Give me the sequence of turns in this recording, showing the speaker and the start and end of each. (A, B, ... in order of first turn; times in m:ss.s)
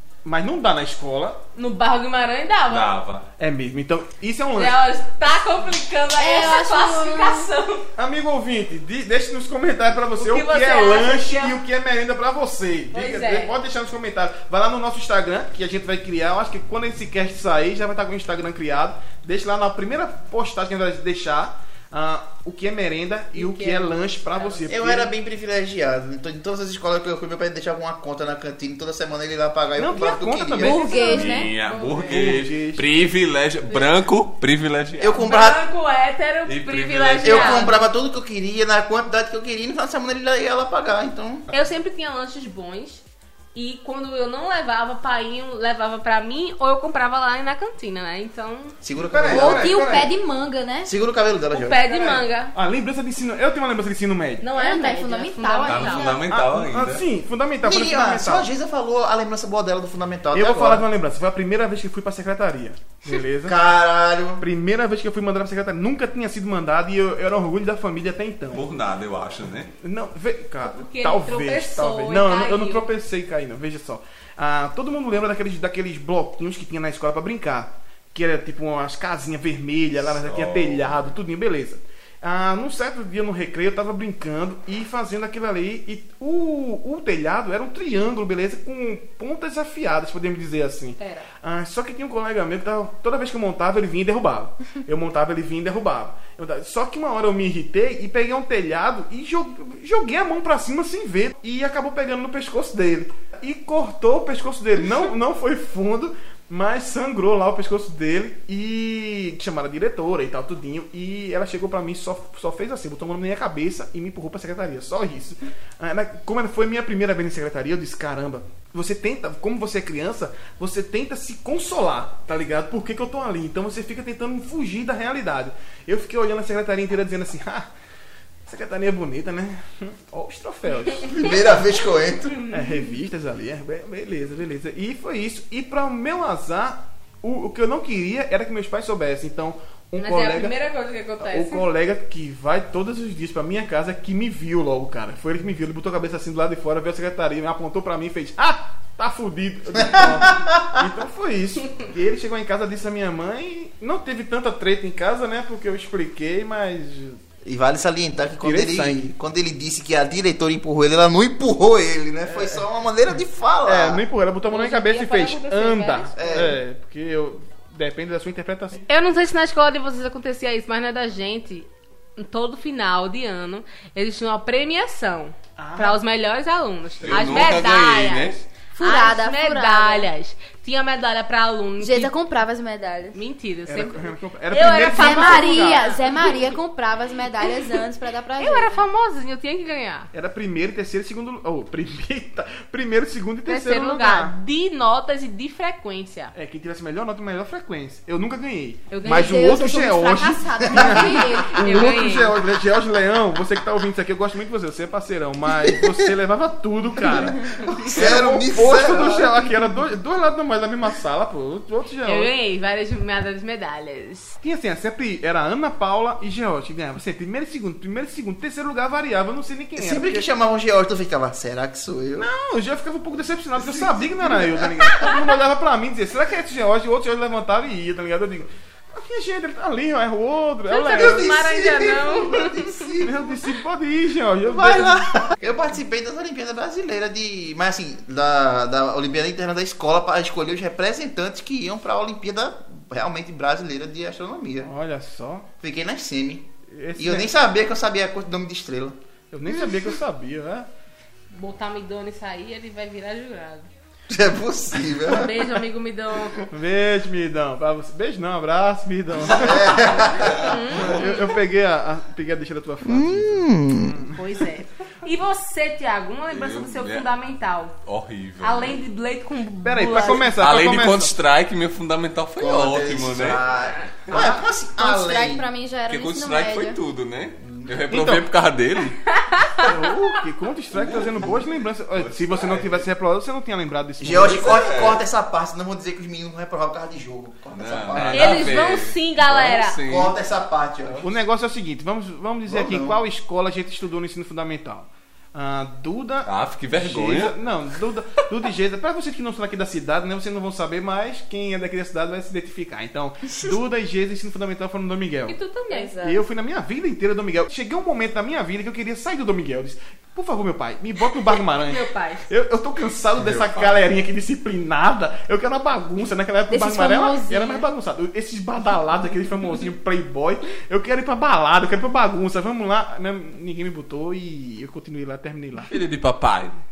0:00.2-0:01.4 A
0:01.6-0:02.9 B
0:02.7-0:03.2 C
0:03.4-0:04.9 A
0:04.6-0:07.9 B
0:06.2-0:07.5 D
0:08.0-0:25.1 A
0:10.2-0:11.6 B
0:12.9-0:13.5 B
0:23.3-0:24.7 B
0:24.7-0:30.8 E
0:29.8-0:32.9 A
0:30.6-0:31.5 D
0:30.9-0:32.4 B
0:31.0-0:35.2 C
0:35.0-0:35.6 E
0:35.2-0:37.8 B
0:36.5-0:37.8 C
0:37.2-0:41.5 E
0:41.5-0:43.0 B
0:43.6-0:48.8 B
0:48.8-0:49.9 E
0:49.0-0:50.1 A
0:49.3-0:50.9 D
0:50.8-0:51.8 E
0:51.5-0:52.5 B
0:51.8-0:54.5 A
0:54.4-0:56.1 B
0:54.5-0:56.2 D
0:55.6-0:57.0 C
0:56.3-0:58.5 A
0:57.6-1:00.9 E
1:00.3-1:03.6 A
1:03.4-1:04.5 E
1:04.4-1:08.7 A
1:08.5-1:09.7 C
1:09.8-2:07.7 A
1:10.6-1:12.9 B
1:20.0-1:21.0 C
1:31.0-1:31.3 B
2:08.5-2:11.4 A
2:10.9-2:11.5 B
2:11.1-2:12.4 E
2:12.3-2:12.9 B
2:12.5-2:20.6 A
2:20.0-2:21.7 B
2:21.2-2:37.2 A
2:29.8-2:30.8 E
2:37.4-2:44.0 E
2:38.4-2:39.1 A
2:42.2-2:42.6 A
2:43.6-2:48.9 A
2:44.5-2:46.4 B
2:46.2-2:46.6 E
2:48.9-3:02.1 B
2:55.6-2:56.0 A
2:57.0-2:57.5 A
2:57.0-2:58.4 C
2:58.7-3:00.1 D
3:01.8-3:03.2 D
3:03.1-3:06.6 B
3:03.7-3:06.0 A
3:04.9-3:08.8 D
3:08.4-3:10.1 B
3:10.1-3:14.4 A
3:13.5-3:16.3 B
3:16.4-3:32.3 A
3:18.9-3:19.6 B
3:19.0-3:22.0 D
3:20.7-3:21.0 E
3:21.3-3:22.4 B
3:25.6-3:26.0 E
3:27.0-3:29.4 E
3:32.0-3:34.4 B
3:34.4-3:40.3 A
3:39.8-3:42.3 E
3:42.2-3:51.4 A
3:43.6-3:45.1 E
3:50.7-3:52.7 B
3:50.9-3:53.4 E
3:53.0-3:55.1 A
3:54.4-4:04.7 E
4:04.6-4:05.5 A
4:05.6-4:09.0 E
4:06.7-4:07.3 A
4:09.3-4:10.7 A
4:11.3-4:13.7 B
4:14.1-4:15.6 E
4:15.0-4:16.5 B
4:16.5-4:24.2 A
4:19.3-4:20.6 E
4:20.2-4:21.3 B
4:22.8-4:24.0 E
4:24.2-4:27.8 B
4:26.3-4:27.1 C
4:27.8-4:28.8 C
4:28.4-4:30.4 B
4:29.6-4:31.1 A
4:30.4-4:33.4 C
4:32.4-4:35.5 E
4:34.1-4:34.5 A
4:34.8-4:36.8 D
4:35.9-4:39.0 C
4:37.4-4:37.8 E
4:37.9-4:38.3 A
4:39.1-4:39.8 B
4:39.6-4:44.6 A
4:42.0-4:42.8 C
4:44.0-4:48.7 E
4:44.1-4:45.0 C
4:47.5-4:50.2 C
4:48.1-4:49.8 B
4:49.8-4:51.1 E
4:51.0-5:05.4 A
4:52.5-4:53.0 E
4:56.3-4:57.4 C
5:05.3-5:05.9 B
5:05.7-5:06.2 D
5:06.0-5:25.7 A
5:11.6-5:12.2 B
5:13.2-5:13.7 C
5:16.5-5:17.7 D
5:25.7-5:26.6 C